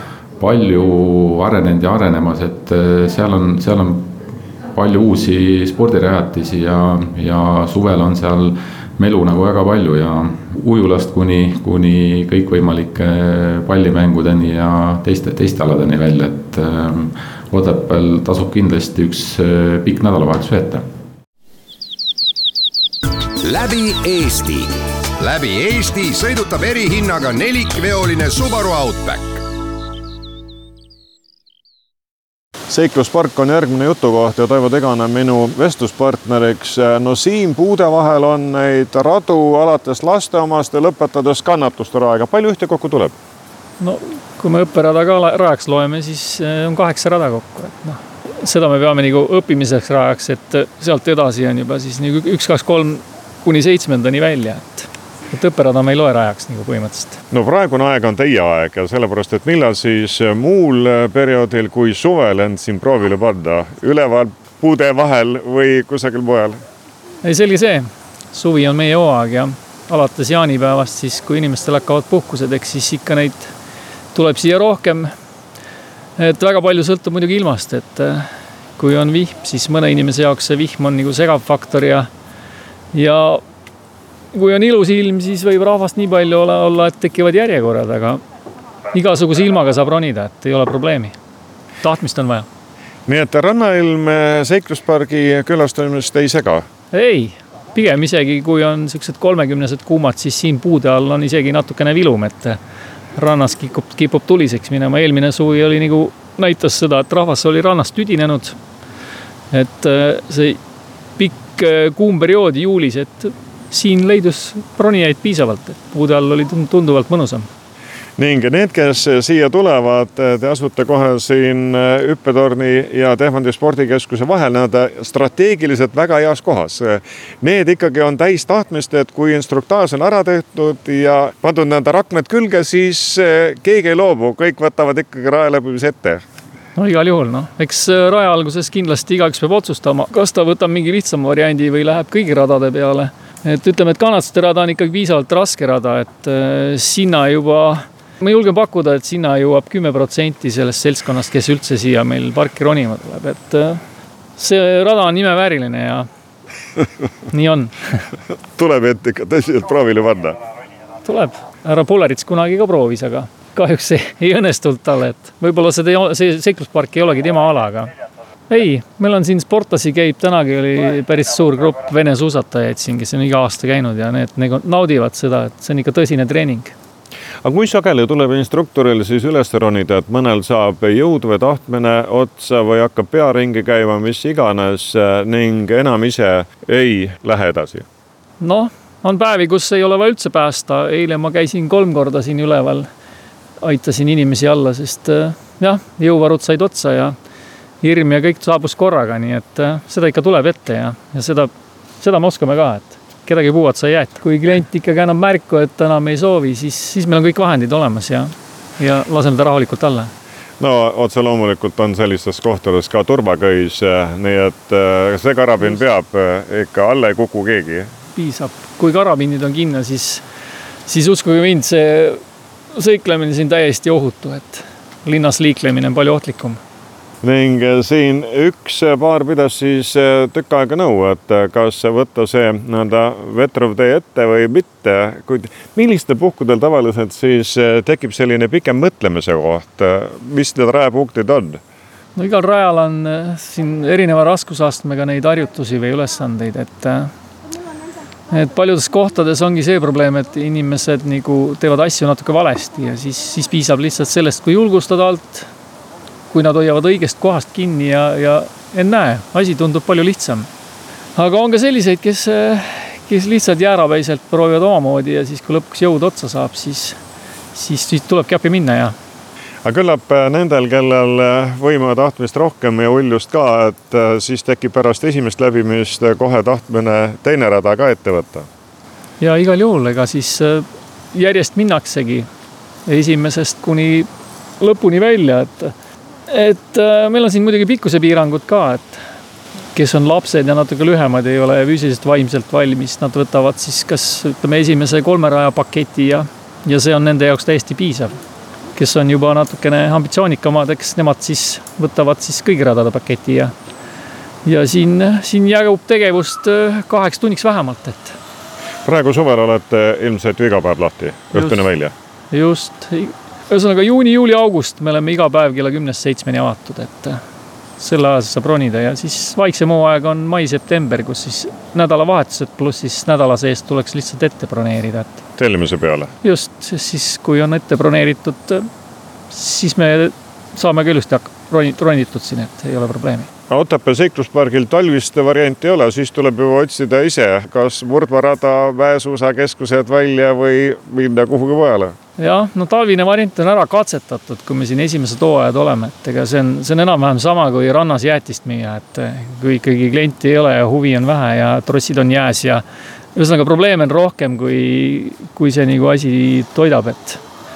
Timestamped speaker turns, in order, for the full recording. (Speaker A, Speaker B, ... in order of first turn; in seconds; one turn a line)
Speaker A: 0.4-4.2
Speaker A: 4.7-20.8
Speaker B: 23.4-29.4
Speaker C: 32.7-43.1
Speaker D: 43.8-57.2
Speaker C: 57.3-66.6
Speaker D: 67.2-73.5
Speaker D: 74.1-75.1
Speaker D: 76.2-82.1
Speaker D: 82.9-83.4
Speaker D: 84.3-88.2
Speaker D: 88.9-91.1
Speaker D: 91.8-92.5
Speaker C: 93.1-96.7
Speaker D: 96.9-102.6
Speaker D: 103.2-108.6
Speaker D: 109.5-110.6
Speaker D: 111.2-117.5
Speaker C: 118.2-136.2
Speaker D: 136.8-153.8
Speaker D: 154.4-156.1
Speaker D: 157.3-158.0
Speaker C: 158.5-160.4
Speaker D: 161.0-167.9
Speaker D: 168.5-176.7
Speaker C: 177.4-187.8
Speaker D: 188.4-192.9
Speaker D: 193.6-197.2
Speaker D: 197.8-210.1
Speaker C: 210.6-217.9
Speaker D: 218.2-220.2
Speaker D: 220.8-222.2
Speaker D: 222.7-226.6
Speaker C: 227.2-241.6
Speaker D: 242.2-247.1
Speaker D: 248.3-255.5
Speaker D: 256.3-260.5
Speaker D: 261.1-267.0
Speaker D: 267.5-268.9
Speaker C: 269.6-278.5
Speaker D: 279.2-282.3
Speaker D: 282.9-284.1
Speaker D: 284.6-285.7
Speaker D: 286.3-289.0
Speaker D: 289.7-298.1
Speaker D: 298.8-303.5
Speaker D: 304.4-308.1
Speaker C: 308.8-311.9
Speaker D: 311.3-311.6
Speaker D: 312.3-317.2
Speaker D: 317.8-325.2
Speaker C: 325.4-326.1
Speaker D: 326.2-328.7
Speaker D: 329.3-333.3
Speaker C: 333.5-341.9
Speaker D: 342.2-352.6
Speaker D: 353.1-357.2